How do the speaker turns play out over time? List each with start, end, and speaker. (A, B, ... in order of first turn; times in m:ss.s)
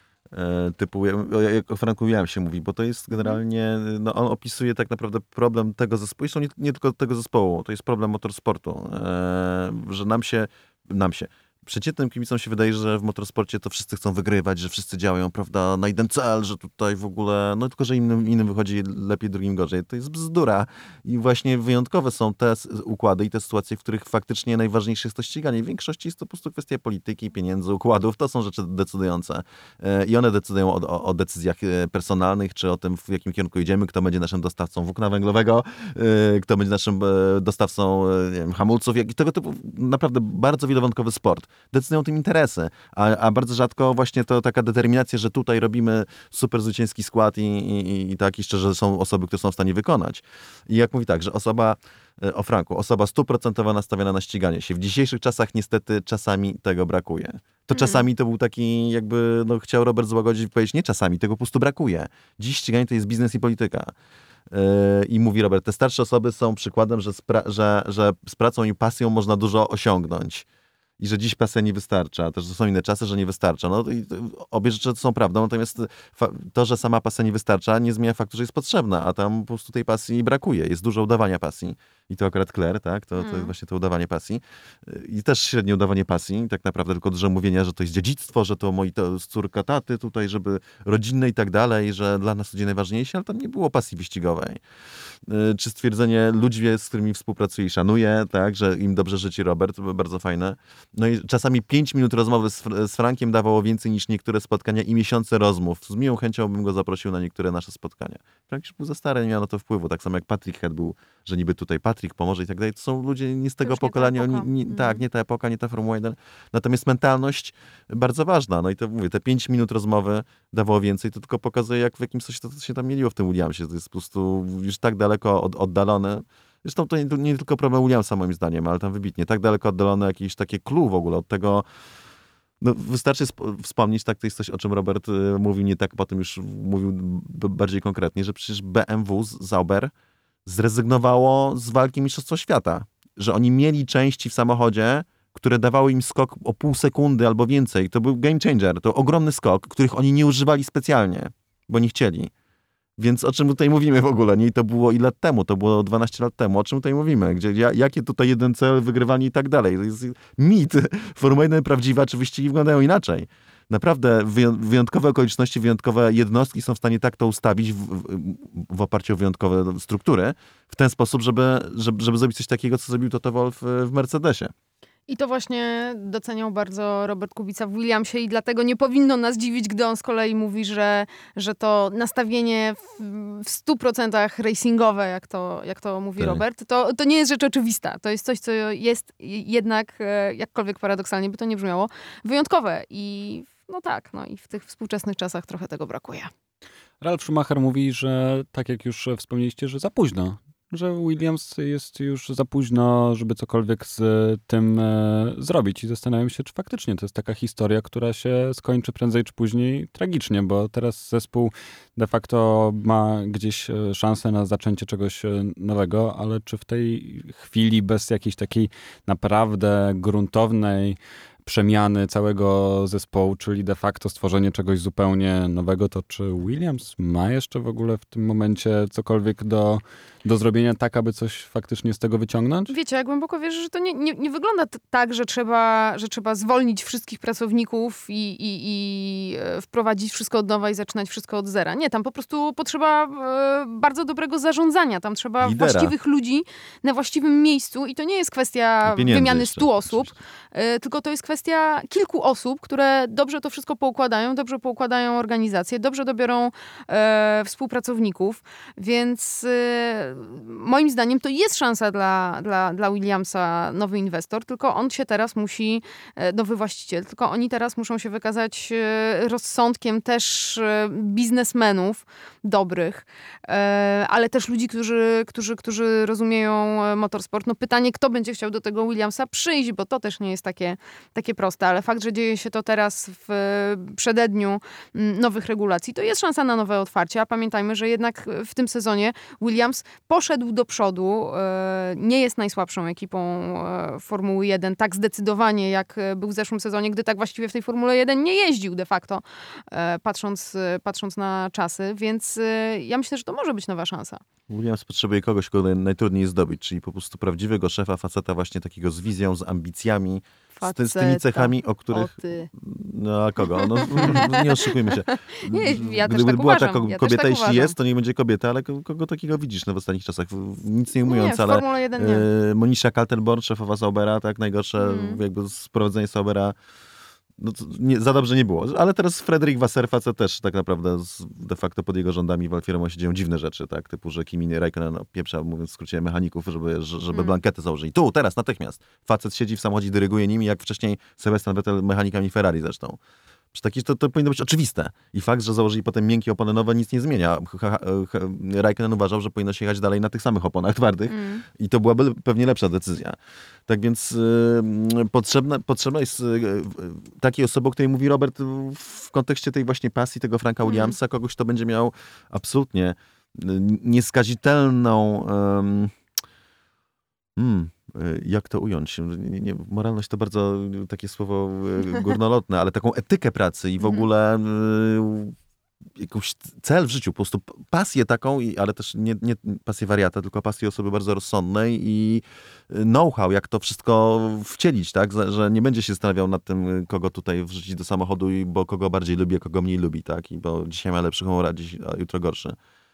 0:00.3-1:03.9 A
0:57.7-0:58.1 B
1:04.5-1:10.4 A
1:11.0-1:34.6 A
1:23.2-1:23.5 B
1:35.2-2:11.6 A
1:53.6-1:55.0 B
2:12.6-2:19.9 A
2:20.4-2:32.3 A
2:33.0-2:54.5 A
2:55.1-3:16.3 B
3:06.2-3:06.4 A
3:17.0-3:52.7 C
3:52.7-5:04.2 B
4:05.4-4:05.9 A
4:08.8-4:10.2 A
5:04.5-5:26.6 A
5:10.6-5:12.5 B
5:13.6-5:17.8 B
5:21.0-5:22.3 B
5:24.8-5:25.2 B
5:27.4-5:43.0 A
5:37.1-5:37.4 B
5:43.5-5:53.2 A
5:51.1-5:51.4 B
5:53.7-6:06.0 A
6:00.6-6:01.0 B
6:07.4-6:15.4 A
6:16.0-6:32.6 A